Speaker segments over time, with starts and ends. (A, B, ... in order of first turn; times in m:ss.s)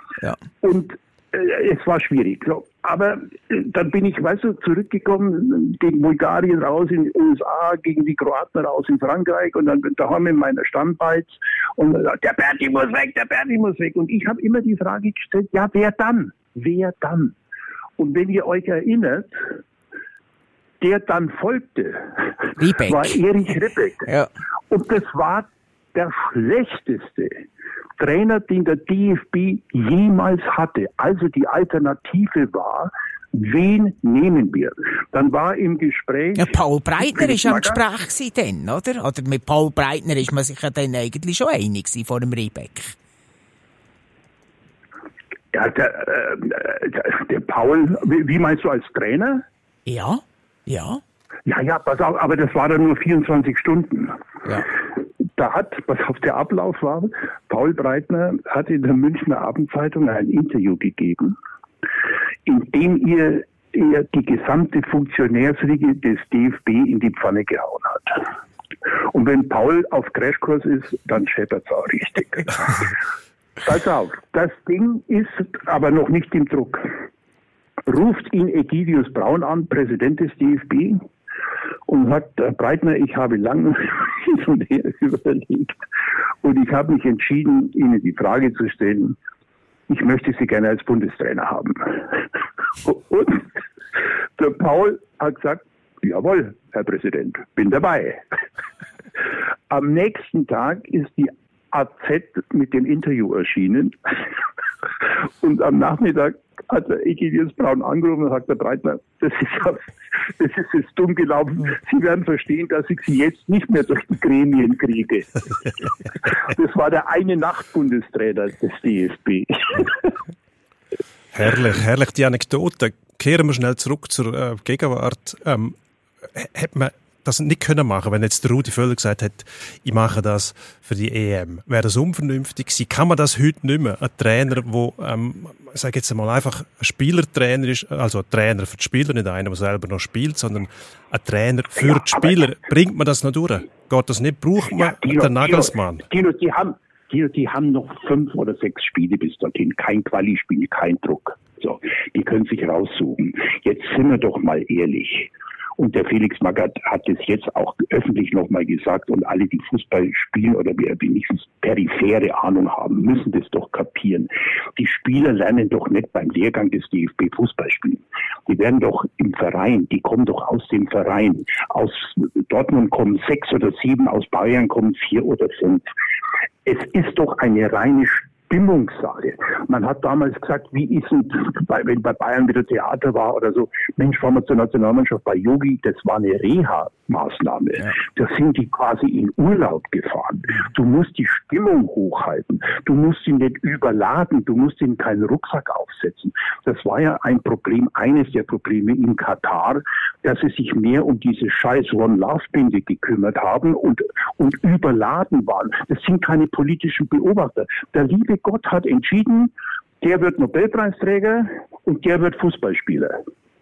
0:00.6-0:17.3 A
0:18.0-0:19.4 A
0:20.8-0:24.1 A
0:22.6-0:23.2 B
0:24.7-0:27.4 A
0:28.0-0:36.5 A
0:36.4-0:43.0 B
0:37.1-0:37.8 A
0:45.5-0:49.4 A
0:49.9-0:51.0 B
0:51.5-0:54.2 A
0:55.4-1:01.4 A
1:02.5-1:08.3 A
1:09.1-1:12.9 A
1:13.6-1:16.9 A
1:17.9-1:21.0 A
1:21.9-1:25.8 A
1:26.4-1:29.2 A
1:29.9-1:32.2 A
1:32.8-1:33.5 A
1:34.4-1:38.2 A
1:39.7-1:44.1 A
1:45.1-2:00.0 A
2:01.3-2:26.1 C
2:21.8-2:22.4 A
2:24.8-2:55.9 A
2:56.6-3:33.2 A